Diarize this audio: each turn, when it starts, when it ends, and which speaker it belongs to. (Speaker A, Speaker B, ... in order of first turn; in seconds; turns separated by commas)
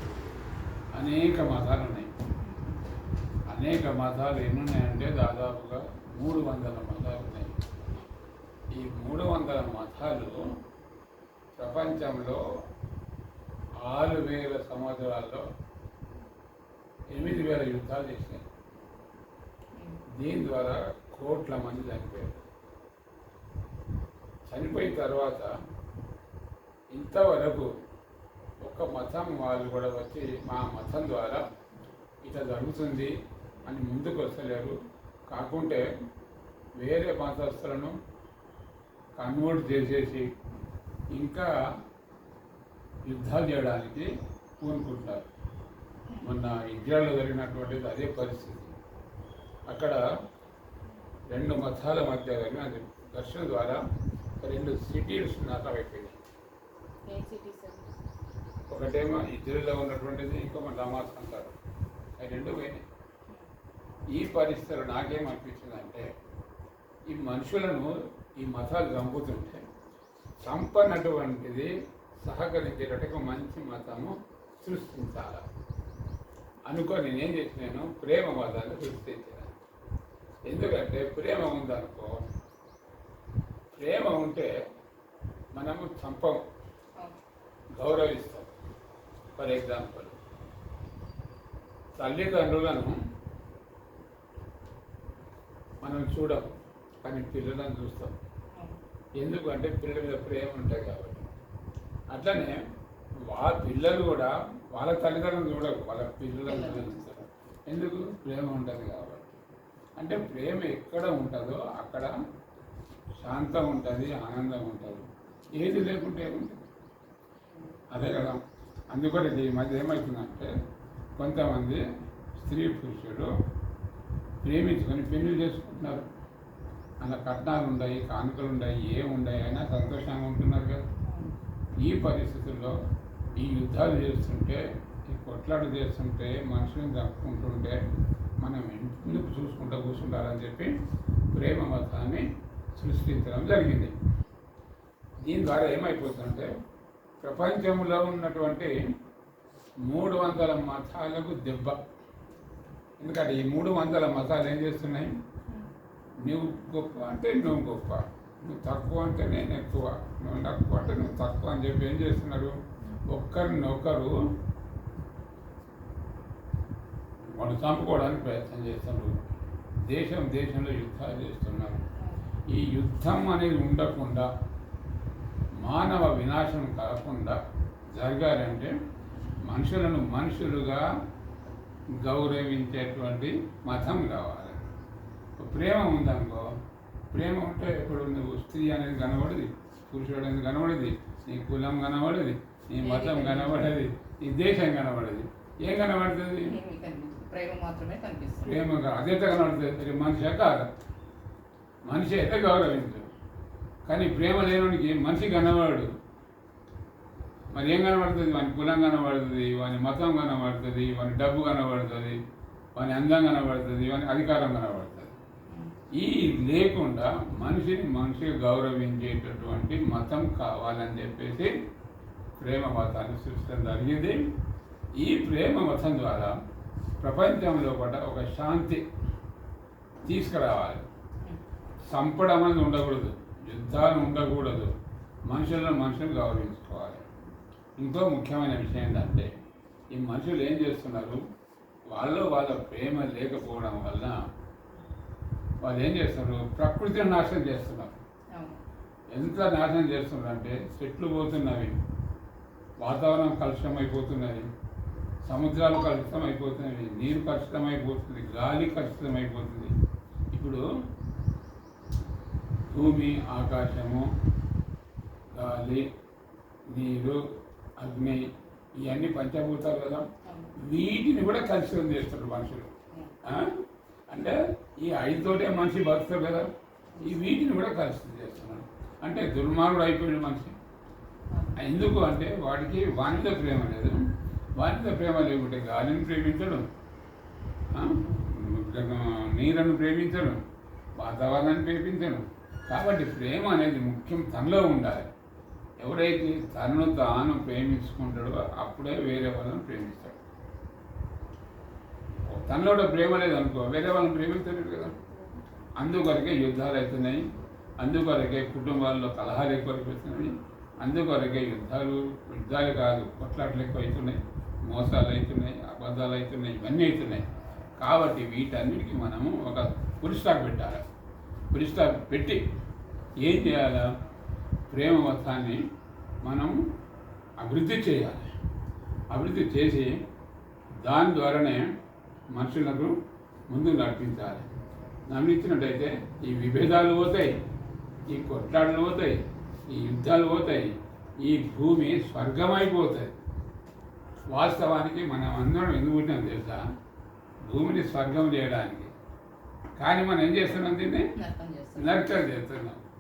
Speaker A: 0.9-2.1, Speaker B: 2.4-2.8, Speaker A: 3.5-7.5, Speaker A: 8.8-10.4, Speaker A: 11.6-12.4, Speaker A: 13.8-15.4, Speaker A: 17.1-18.4, Speaker B: 19.8-20.0, Speaker A: 20.2-22.5, Speaker A: 24.5-25.5, Speaker A: 26.9-27.7, Speaker A: 28.6-31.4, Speaker A: 32.2-33.1, Speaker A: 33.6-34.8, Speaker A: 35.3-35.9, Speaker A: 36.8-38.0, Speaker A: 39.2-40.3, Speaker A: 41.1-41.5, Speaker A: 43.1-44.1, Speaker A: 44.6-45.2, Speaker A: 46.2-48.7, Speaker A: 49.7-50.0, Speaker A: 51.3-53.8, Speaker A: 54.4-56.2, Speaker B: 57.1-58.0, Speaker A: 58.7-61.6, Speaker A: 62.2-62.8, Speaker A: 64.1-66.1, Speaker A: 67.1-69.6, Speaker A: 70.5-71.7, Speaker A: 72.2-75.4, Speaker A: 76.7-79.5, Speaker A: 80.5-82.1, Speaker A: 83.8-84.5, Speaker A: 85.6-86.4, Speaker A: 87.8-88.5, Speaker A: 89.4-90.2, Speaker A: 92.0-93.0, Speaker A: 95.8-96.5, Speaker A: 97.0-98.1, Speaker A: 99.2-101.3, Speaker A: 102.1-102.6, Speaker A: 103.3-109.4, Speaker B: 106.5-107.0, Speaker A: 110.0-112.1, Speaker A: 113.2-116.6, Speaker B: 117.5-117.8, Speaker A: 117.9-120.5, Speaker A: 121.2-121.8, Speaker A: 122.4-123.3, Speaker A: 124.4-126.1, Speaker A: 127.0-130.8, Speaker B: 131.1-131.3, Speaker A: 131.8-132.8, Speaker A: 133.4-137.8, Speaker A: 138.4-140.7, Speaker A: 141.3-143.9, Speaker A: 145.2-146.5, Speaker A: 147.2-148.7, Speaker A: 149.9-151.8, Speaker A: 153.0-155.1, Speaker A: 156.2-162.6, Speaker A: 163.1-164.1, Speaker A: 167.3-169.1, Speaker A: 169.9-171.8, Speaker A: 172.5-174.3, Speaker A: 175.6-177.4, Speaker A: 177.9-178.7, Speaker A: 179.5-180.8, Speaker A: 182.0-184.6, Speaker A: 185.4-186.5, Speaker A: 187.1-196.5, Speaker B: 192.8-193.6, Speaker B: 196.4-198.6, Speaker A: 198.4-200.7, Speaker A: 201.9-203.1, Speaker A: 203.9-205.9, Speaker A: 207.6-212.2, Speaker A: 212.8-215.1, Speaker A: 216.0-221.5, Speaker A: 222.4-224.2, Speaker A: 225.0-226.3, Speaker A: 227.0-228.8, Speaker A: 230.1-230.8, Speaker A: 231.9-234.7, Speaker A: 235.3-237.0, Speaker A: 237.8-239.3, Speaker A: 239.9-241.2, Speaker A: 241.9-244.2, Speaker A: 245.6-248.0, Speaker B: 248.3-248.6, Speaker A: 249.1-251.8, Speaker A: 252.8-254.4, Speaker A: 255.3-259.7, Speaker A: 260.3-260.6, Speaker A: 262.7-264.1, Speaker A: 265.4-265.9, Speaker A: 266.7-267.2, Speaker A: 267.8-268.2, Speaker A: 268.8-272.7, Speaker B: 270.2-270.5, Speaker A: 273.2-276.5, Speaker B: 276.9-277.3, Speaker A: 277.0-280.6, Speaker B: 281.3-281.6, Speaker A: 281.6-284.0, Speaker A: 284.6-286.6, Speaker A: 287.7-290.4, Speaker A: 291.0-295.1, Speaker A: 295.8-300.2, Speaker A: 302.3-305.0, Speaker A: 305.8-307.2, Speaker A: 307.8-317.2, Speaker A: 317.8-320.8, Speaker A: 321.5-322.4, Speaker A: 323.2-323.9, Speaker A: 324.7-325.6, Speaker A: 326.2-326.6, Speaker A: 327.4-328.3, Speaker A: 329.1-329.9, Speaker A: 330.8-331.6, Speaker A: 332.4-332.9, Speaker A: 333.5-334.5, Speaker A: 335.1-337.3, Speaker A: 338.1-343.1, Speaker A: 344.3-346.6, Speaker A: 347.5-348.9, Speaker A: 349.8-351.1, Speaker B: 351.1-352.1, Speaker A: 351.8-352.8